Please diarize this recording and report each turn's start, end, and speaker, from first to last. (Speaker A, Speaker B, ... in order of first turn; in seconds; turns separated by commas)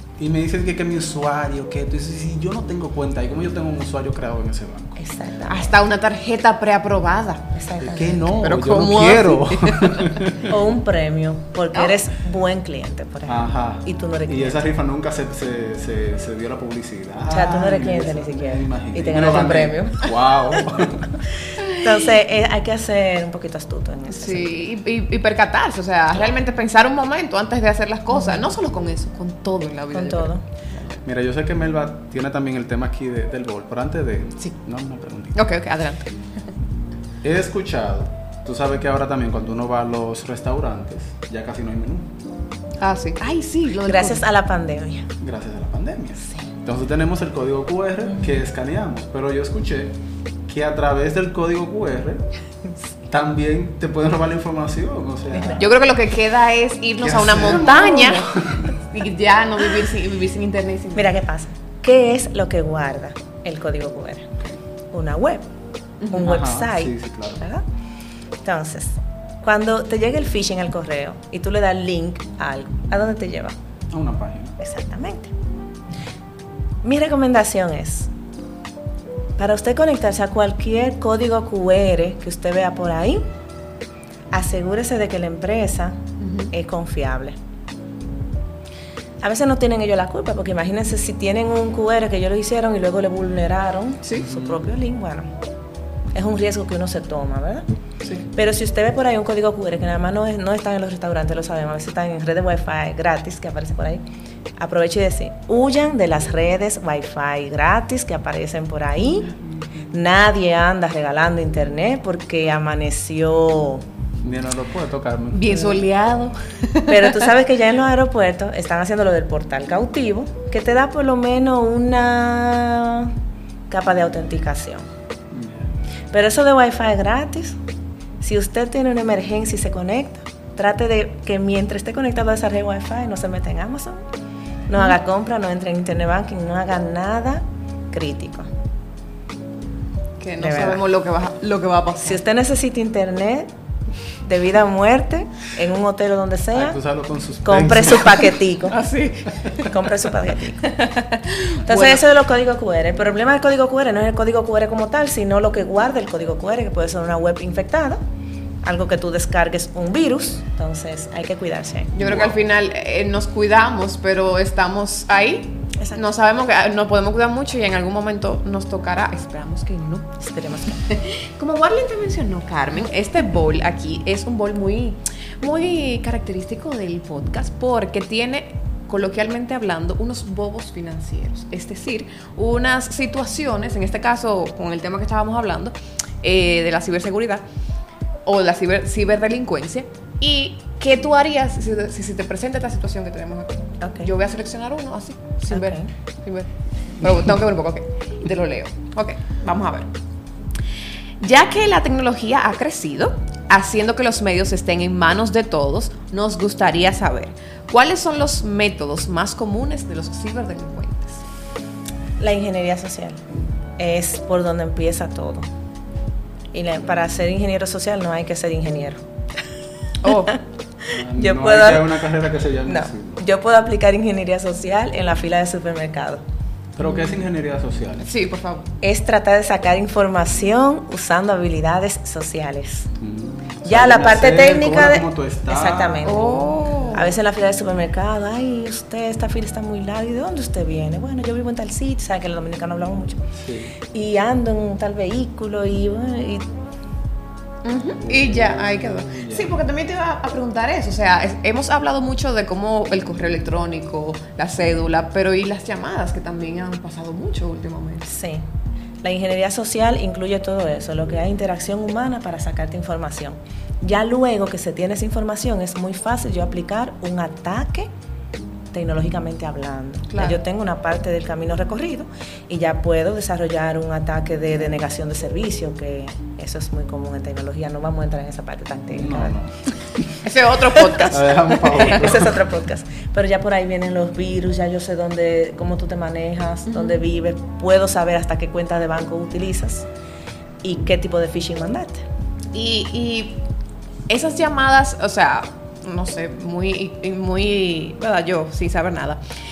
Speaker A: 0.2-5.0, Speaker B: 5.0-5.7, Speaker C: 5.5-7.5, Speaker B: 7.5-8.4, Speaker A: 7.8-10.5, Speaker C: 8.4-10.2, Speaker B: 10.5-14.7, Speaker A: 13.2-21.2, Speaker B: 17.3-20.7, Speaker B: 21.5-24.6, Speaker C: 24.1-31.0, Speaker B: 28.1-28.5, Speaker B: 29.9-30.4, Speaker A: 31.0-35.4, Speaker C: 35.3-36.5, Speaker A: 37.2-42.1, Speaker C: 42.8-44.2, Speaker B: 43.9-45.1, Speaker A: 45.2-52.3, Speaker A: 53.1-55.7, Speaker C: 55.5-61.1, Speaker A: 57.0-58.7, Speaker B: 60.9-64.3, Speaker B: 64.9-65.5, Speaker B: 66.1-67.6, Speaker A: 66.2-67.4, Speaker B: 68.4-73.5, Speaker A: 73.9-74.6, Speaker B: 74.6-75.3, Speaker B: 76.8-78.1, Speaker B: 79.4-83.2, Speaker B: 84.3-86.0, Speaker C: 86.2-86.5, Speaker B: 86.5-87.3, Speaker B: 89.2-95.3, Speaker A: 94.1-94.6, Speaker B: 96.1-97.7, Speaker B: 98.3-104.0, Speaker B: 104.6-109.3, Speaker B: 109.9-113.8, Speaker A: 114.2-115.6, Speaker C: 115.3-117.2, Speaker B: 116.8-123.1, Speaker B: 123.7-124.9, Speaker A: 125.3-125.7, Speaker B: 126.1-127.6, Speaker B: 128.2-134.0, Speaker B: 134.7-138.5, Speaker C: 140.2-142.2, Speaker B: 140.4-140.8, Speaker B: 142.0-143.5, Speaker B: 144.2-146.8, Speaker A: 146.5-148.3, Speaker B: 147.4-148.8, Speaker C: 148.7-149.8, Speaker B: 149.6-150.6, Speaker C: 150.6-152.0, Speaker B: 151.7-158.0, Speaker B: 158.6-161.9, Speaker A: 161.9-162.4, Speaker C: 162.0-170.1, Speaker B: 170.2-170.8, Speaker C: 170.7-187.4, Speaker C: 188.2-199.9, Speaker B: 193.8-194.1, Speaker B: 195.5-195.9, Speaker C: 201.2-211.2, Speaker B: 212.2-213.2, Speaker B: 213.8-215.4, Speaker B: 216.5-219.0, Speaker C: 220.0-220.3, Speaker B: 220.1-221.9, Speaker A: 220.9-223.2, Speaker B: 222.7-226.2, Speaker A: 226.8-228.1, Speaker C: 226.8-227.2, Speaker C: 228.0-228.7, Speaker B: 228.8-232.9, Speaker A: 233.0-236.5, Speaker B: 233.6-243.2, Speaker C: 236.0-237.1, Speaker A: 243.4-243.7, Speaker B: 243.9-246.4, Speaker C: 247.6-258.1, Speaker A: 248.0-249.6, Speaker B: 258.1-258.4, Speaker B: 259.0-267.9, Speaker B: 268.7-279.4, Speaker C: 270.1-270.4, Speaker A: 278.9-280.1, Speaker C: 280.2-281.4, Speaker A: 281.1-282.3, Speaker B: 281.6-289.9, Speaker C: 286.7-287.0, Speaker B: 290.6-292.0, Speaker C: 292.5-293.4, Speaker C: 294.1-299.2